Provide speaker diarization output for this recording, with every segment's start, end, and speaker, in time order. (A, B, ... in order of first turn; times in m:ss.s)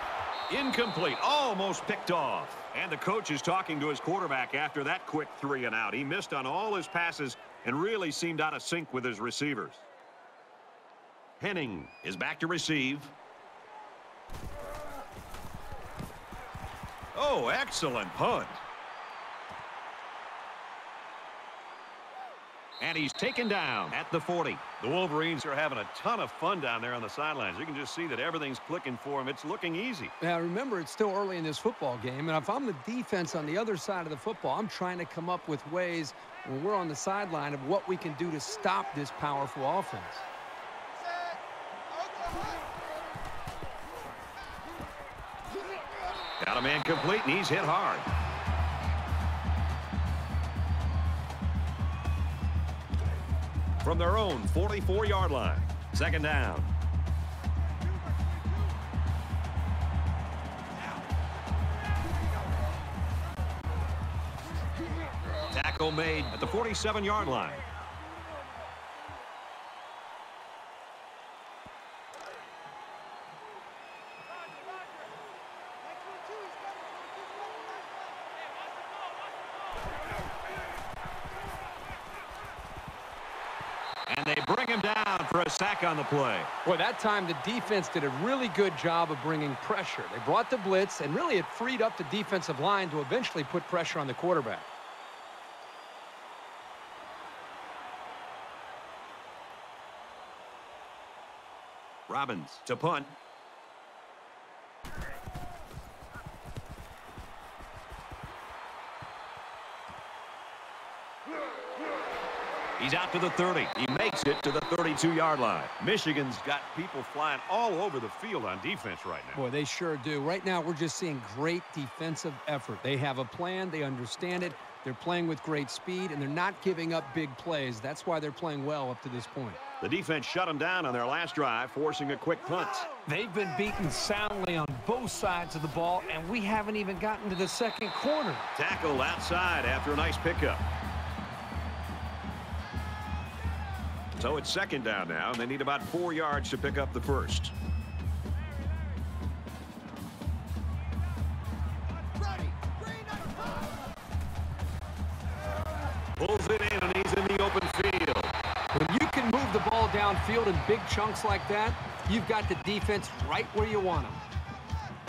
0:00.5-0:09.8 A
0:11.4-0:13.1 A
0:17.1-0:18.6 A
0:22.8-0:30.1 A
0:30.2-0:40.2 B
0:42.0-0:42.6 C
0:46.4-0:48.1 A
0:53.8-0:56.7 A
1:05.5-1:07.6 A
1:15.9-1:17.9 C
1:24.1-1:26.5 A
1:26.6-1:34.7 B
1:42.1-1:43.2 A
1:52.8-1:59.4 A
1:59.3-2:09.6 B
2:09.8-2:12.9 A
2:13.0-2:18.5 B
2:18.5-2:20.6 A
2:24.2-2:27.5 A
2:32.1-2:33.7 C
2:36.2-2:38.3 A
2:38.7-2:44.2 B